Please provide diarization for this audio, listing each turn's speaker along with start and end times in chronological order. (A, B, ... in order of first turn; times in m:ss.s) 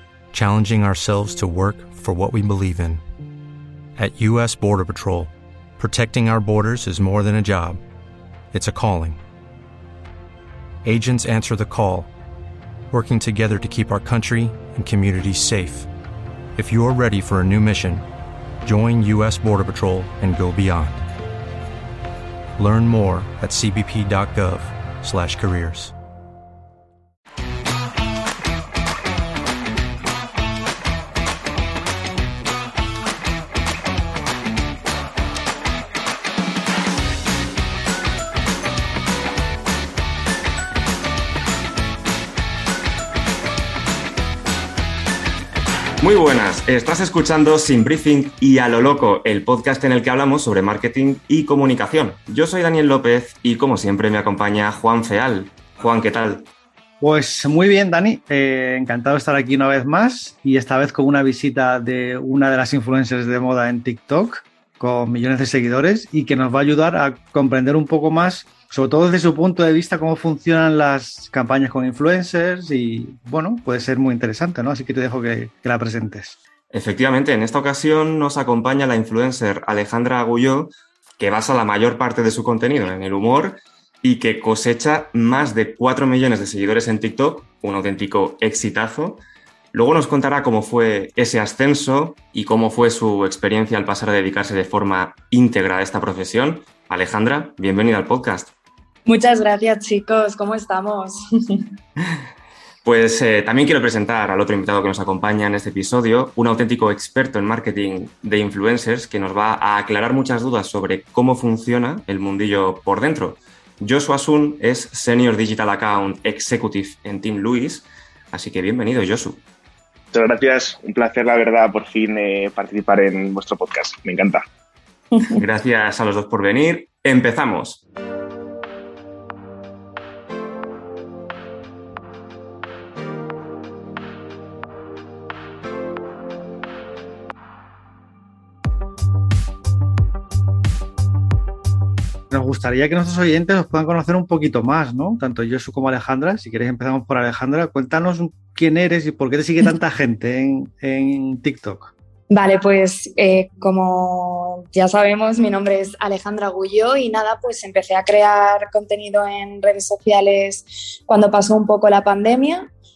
0:00.3-0:03.0 A
0:04.0-0:07.8 A
0:08.5-0:09.2 A
0:10.8-0:12.1 A
0:12.9-0:15.9 A
0:16.6-0:18.0 A
0:18.6-0:21.0 A
0:22.6-0:25.9 A
0:46.0-0:56.4 B
0:57.0-1:16.4 C
1:16.7-1:29.2 B
1:29.7-1:38.5 B
1:39.0-1:41.6 D
1:42.8-1:59.4 B
2:00.1-2:04.4 E
2:05.3-2:07.8 B
2:22.3-2:31.9 C
2:32.3-2:42.7 D